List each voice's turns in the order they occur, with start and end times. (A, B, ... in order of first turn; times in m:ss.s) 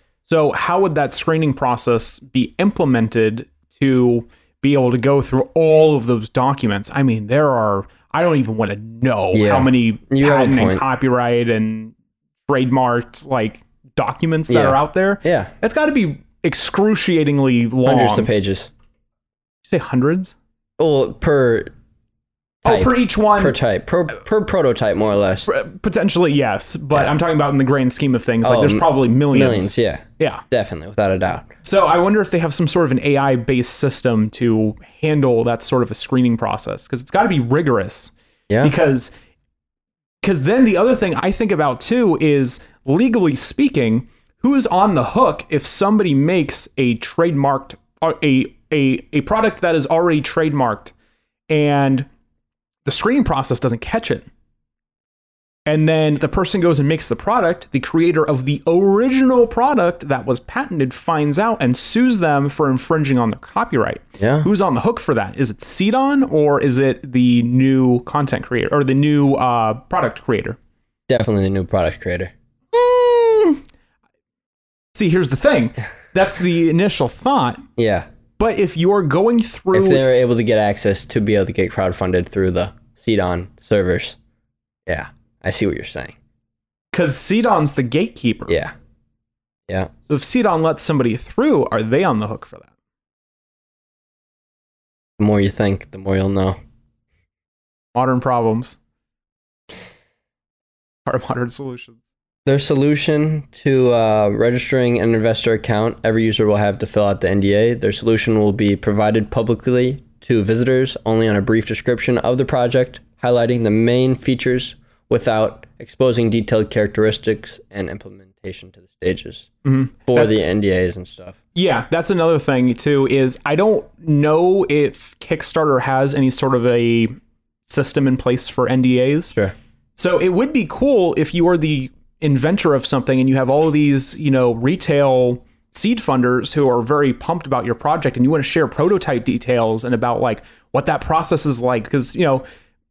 0:00.2-0:11.9 A
0:09.3-0:10.8 B
0:12.5-0:18.3 A
0:14.5-0:15.5 B
0:17.8-0:18.7 B
0:19.6-0:20.3 A
0:20.8-0:21.7 B
0:22.6-0:23.6 A
0:22.6-0:25.5 B
0:25.4-0:30.4 A
0:28.4-0:31.5 B
0:31.6-0:39.1 A
0:40.2-0:50.9 A
0:51.5-0:52.1 A
0:52.8-0:54.3 A
0:55.6-1:10.6 A
1:04.2-1:04.5 B
1:11.1-1:12.3 B
1:12.7-1:13.6 A
1:14.9-1:17.6 A
1:17.8-1:18.1 B
1:18.4-1:20.0 A
1:19.7-1:24.2 B
1:24.9-1:26.1 B
1:26.9-1:28.6 A
1:28.5-1:28.7 B
1:30.1-1:32.7 A
1:35.2-1:36.6 B
1:37.9-1:38.8 A
1:41.0-1:42.0 A
1:42.4-1:59.5 B
1:59.6-2:00.5 A
2:00.1-2:01.4 B
2:01.5-2:07.1 A
2:07.7-2:09.4 A
2:10.0-2:22.4 A